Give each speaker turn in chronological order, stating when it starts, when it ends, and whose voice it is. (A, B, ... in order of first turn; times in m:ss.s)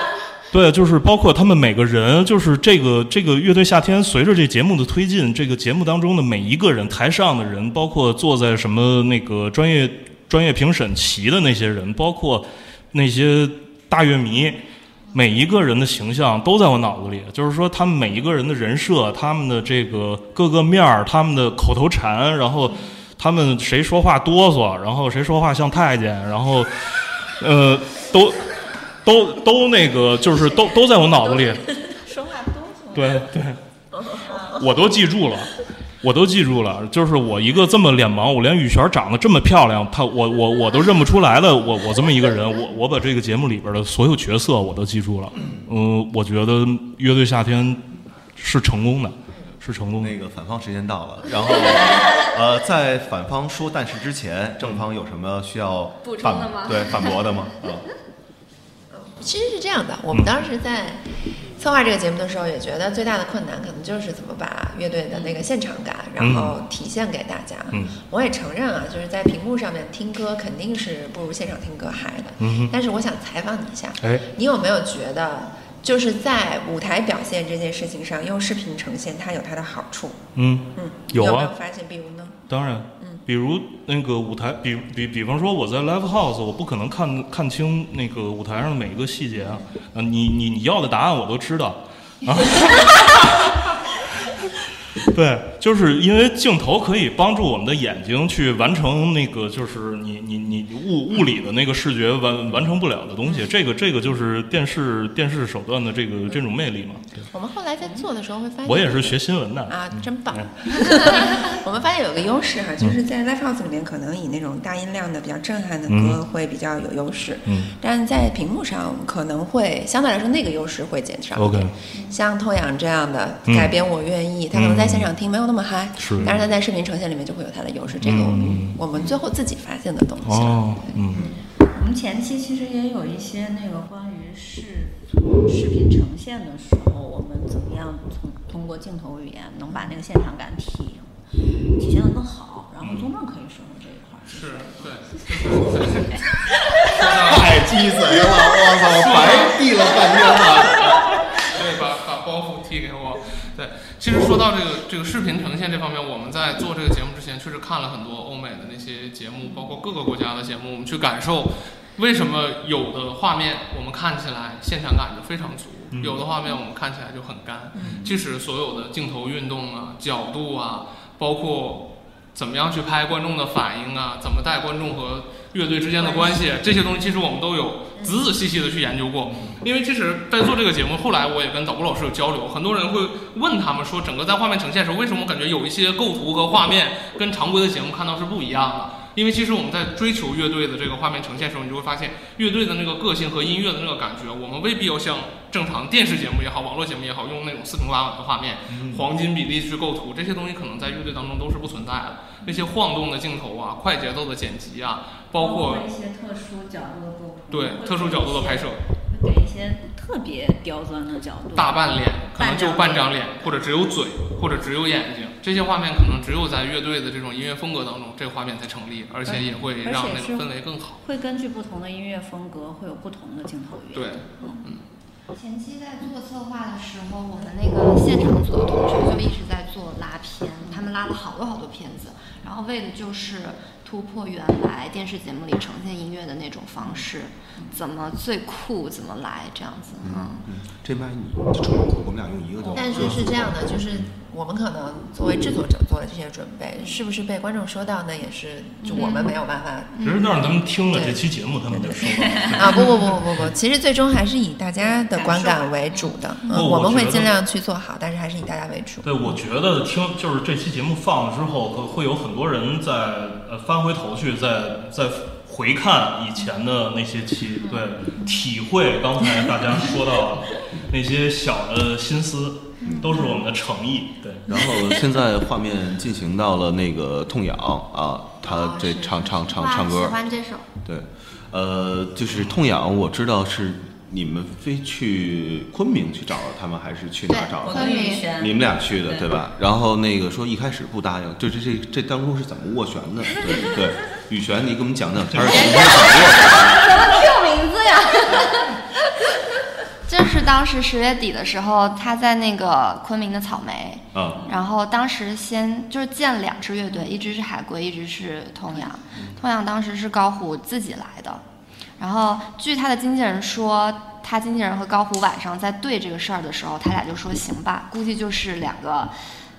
0:00.5-0:14.6 A
0:15.1-0:31.7 A
0:31.7-0:33.2 B
0:32.9-0:33.6 A
0:34.2-0:50.2 A
0:34.2-0:34.6 B
0:50.0-0:57.8 C
0:56.0-0:57.3 D
0:58.9-1:01.0 E
1:00.1-1:00.4 A
1:01.6-1:20.2 E
1:06.2-1:06.6 A
1:12.4-1:12.7 A
1:20.4-1:21.5 A
1:20.7-1:22.4 E
1:22.5-1:33.7 A
1:35.0-1:47.2 A
1:47.3-2:11.2 E
1:48.6-1:51.2 A
1:55.9-1:56.2 A
1:57.5-1:57.7 A
2:01.4-2:01.7 A
2:03.4-2:03.7 A
2:04.5-2:05.1 A
2:06.0-2:06.3 A
2:06.2-2:06.4 C
2:08.0-2:08.8 A
2:10.2-2:11.2 A
2:11.7-2:21.1 B
2:21.8-2:26.9 B
2:24.3-2:26.2 F
2:26.8-2:27.7 F
2:27.2-2:31.0 C
2:28.9-2:29.7 F
2:31.5-3:25.8 F
2:45.9-2:46.2 A
3:18.7-3:19.1 A
3:25.4-3:33.7 B
3:27.5-3:28.8 F
3:31.6-3:41.0 F
3:39.2-3:44.6 B
3:43.9-3:44.8 F
3:45.3-4:00.5 D
4:00.0-4:03.7 C
4:02.7-4:10.1 E
4:08.9-4:09.3 D
4:10.0-4:10.2 D
4:10.0-4:12.9 A
4:10.9-4:19.1 E
4:12.2-4:12.9 B
4:14.8-4:16.2 B
4:16.5-4:17.3 A
4:19.0-4:34.5 A
4:32.8-4:33.2 D
4:34.5-4:40.2 C
4:38.4-4:40.6 D
4:40.8-4:56.8 C
4:47.3-4:48.2 D
4:47.6-4:49.3 B
4:55.5-4:56.3 B
4:55.6-4:55.9 D
4:56.6-4:58.8 D
5:00.0-5:11.4 D
5:04.1-5:04.4 C
5:12.0-5:19.1 D